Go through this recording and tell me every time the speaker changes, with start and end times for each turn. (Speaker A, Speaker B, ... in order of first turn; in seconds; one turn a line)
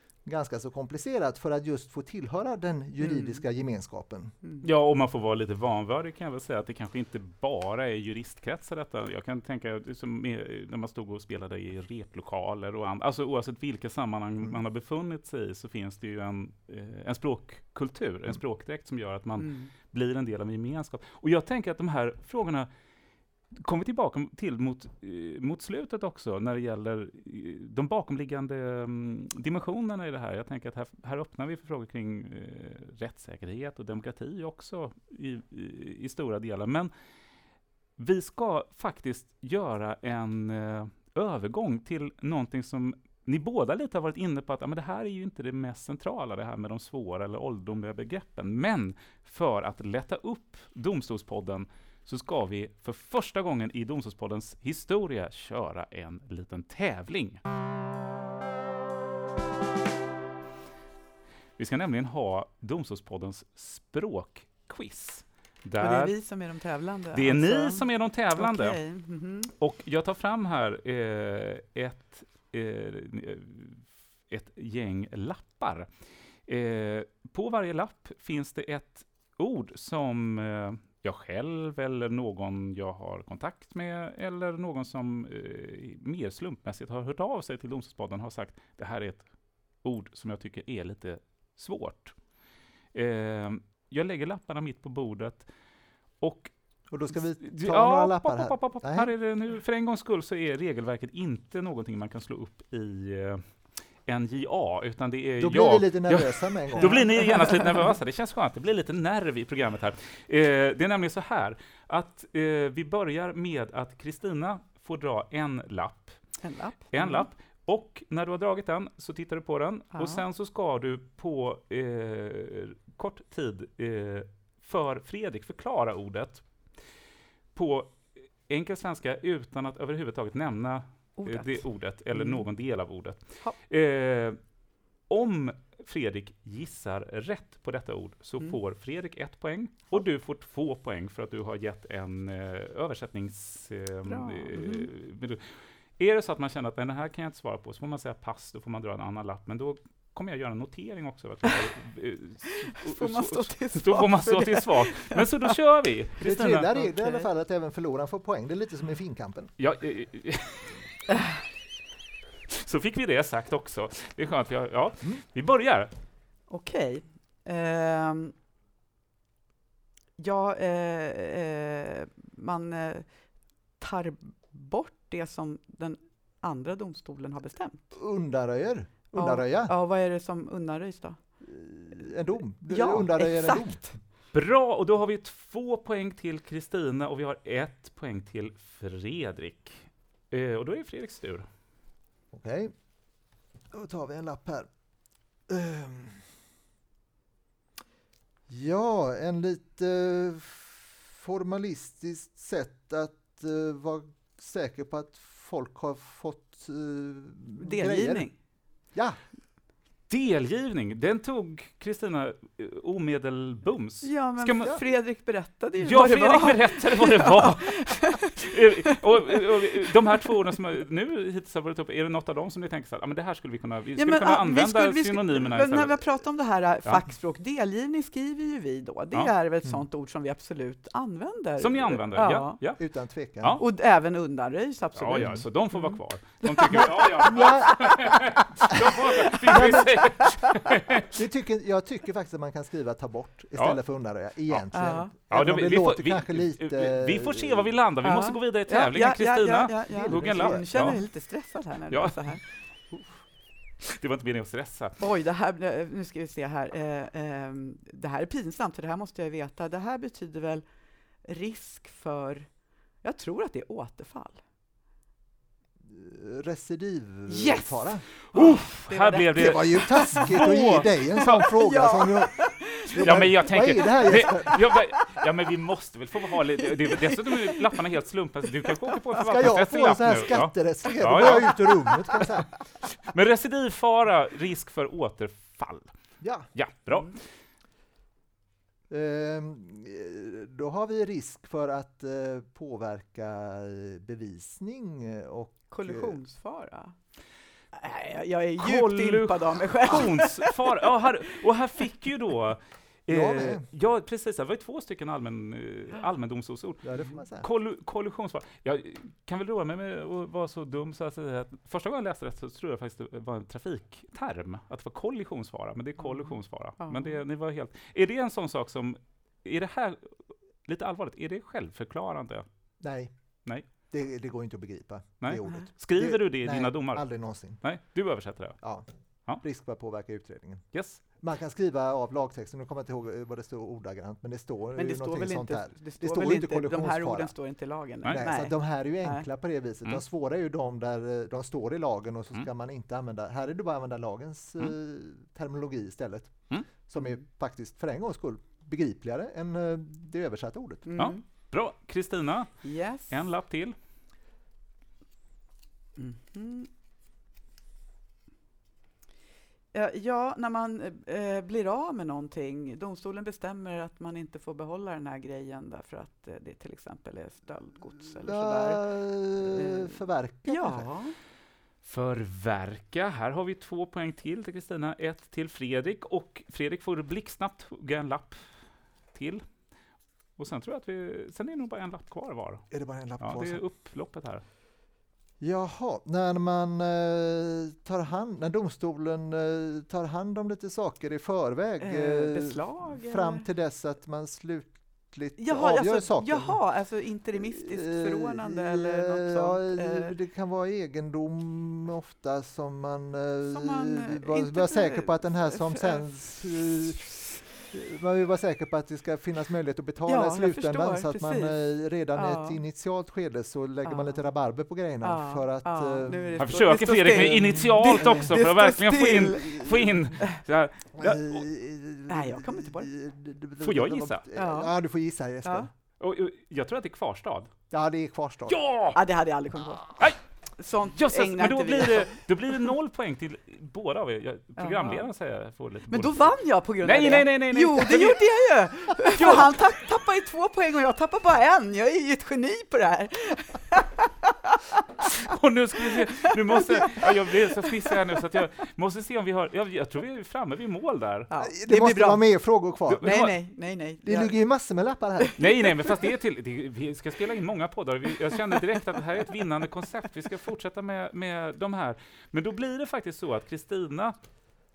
Speaker A: 0.2-4.3
Speaker B: 3.0-3.4
Speaker C: 4.6-22.7
Speaker B: 19.4-19.7
Speaker C: 23.5-36.9
Speaker C: 38.0-57.4
Speaker C: 61.6-66.1
Speaker B: 65.8-69.5
Speaker C: 67.1-68.8
Speaker C: 69.6-75.9
Speaker C: 76.5-92.2
Speaker C: 92.9-95.5
Speaker C: 96.2-96.5
Speaker A: 96.9-99.1
Speaker C: 97.1-116.2
Speaker A: 105.4-107.0
Speaker B: 106.8-107.5
Speaker B: 116.4-117.3
Speaker C: 116.9-126.7
Speaker B: 119.9-120.2
Speaker C: 127.5-134.4
Speaker B: 131.2-132.5
Speaker C: 135.1-156.7
Speaker B: 144.1-144.9
Speaker B: 152.8-155.5
Speaker A: 156.2-159.5
Speaker B: 156.7-157.3
Speaker C: 159.6-160.8
Speaker C: 162.5-165.9
Speaker B: 166.5-168.3
Speaker B: 170.2-173.1
Speaker B: 173.8-178.0
Speaker A: 177.9-179.7
Speaker B: 179.1-181.2
Speaker A: 181.4-183.8
Speaker B: 182.7-184.0
Speaker C: 184.3-191.5
Speaker A: 192.3-192.7
Speaker A: 193.7-194.7
Speaker A: 195.5-196.3
Speaker A: 198.5-208.3
Speaker B: 207.6-208.3
Speaker A: 208.9-209.2
Speaker C: 210.1-214.8
Speaker B: 214.0-220.3
Speaker C: 215.8-226.0
Speaker B: 224.0-232.6
Speaker C: 231.6-232.8
Speaker A: 232.8-233.6
Speaker B: 233.6-240.6
Speaker C: 234.9-241.2
Speaker A: 236.8-238.3
Speaker A: 239.5-239.8
Speaker A: 241.1-247.7
Speaker B: 244.7-245.1
Speaker C: 245.3-251.0
Speaker B: 248.0-252.4
Speaker A: 249.9-250.9
Speaker C: 251.9-252.4
Speaker C: 252.9-253.2
Speaker C: 253.8-255.0
Speaker B: 255.0-260.6
Speaker B: 261.2-262.5
Speaker B: 263.0-264.4
Speaker A: 265.8-268.1
Speaker B: 267.3-275.2
Speaker C: 268.3-271.4
Speaker A: 269.4-274.6
Speaker C: 273.0-282.2
Speaker B: 276.3-277.8
Speaker B: 278.6-279.0
Speaker A: 279.2-282.5
Speaker C: 283.0-285.9
Speaker A: 286.2-286.5
Speaker C: 286.5-287.2
Speaker A: 288.9-296.2
Speaker B: 295.7-296.9
Speaker B: 297.7-301.4
Speaker C: 298.6-322.5
Speaker A: 303.1-303.7
Speaker A: 306.8-307.5
Speaker B: 316.0-317.2
Speaker A: 322.8-323.1
Speaker A: 323.7-327.6
Speaker C: 325.2-328.6
Speaker A: 328.6-328.9
Speaker A: 329.4-337.3
Speaker C: 330.7-331.0
Speaker B: 334.8-339.3
Speaker A: 338.1-350.9
Speaker B: 350.9-351.2
Speaker C: 351.0-352.5
Speaker B: 352.6-353.2
Speaker C: 353.1-353.8
Speaker B: 356.0-356.7
Speaker B: 359.7-371.2
Speaker A: 368.2-370.9
Speaker C: 371.8-379.5
Speaker C: 380.4-384.4
Speaker A: 382.7-383.6
Speaker A: 385.4-396.6
Speaker B: 391.8-393.4
Speaker B: 395.4-400.2
Speaker A: 397.4-416.4
Speaker B: 403.4-406.4
Speaker B: 410.1-411.6
Speaker B: 412.1-412.6
Speaker B: 413.9-414.2
Speaker B: 415.0-420.4
Speaker C: 416.4-421.4
Speaker A: 421.0-425.7
Speaker B: 422.1-422.9
Speaker C: 423.6-424.3
Speaker B: 424.4-424.7
Speaker C: 426.0-427.5
Speaker A: 427.7-428.6
Speaker C: 428.5-429.0
Speaker B: 428.9-432.7
Speaker C: 430.9-438.2
Speaker B: 434.6-435.1
Speaker B: 435.9-445.1
Speaker C: 445.0-451.3
Speaker B: 445.9-448.2
Speaker B: 451.3-452.3
Speaker A: 451.4-453.2
Speaker C: 452.9-453.3
Speaker B: 453.0-454.4
Speaker A: 454.0-455.4
Speaker B: 455.2-456.0
Speaker C: 455.4-464.1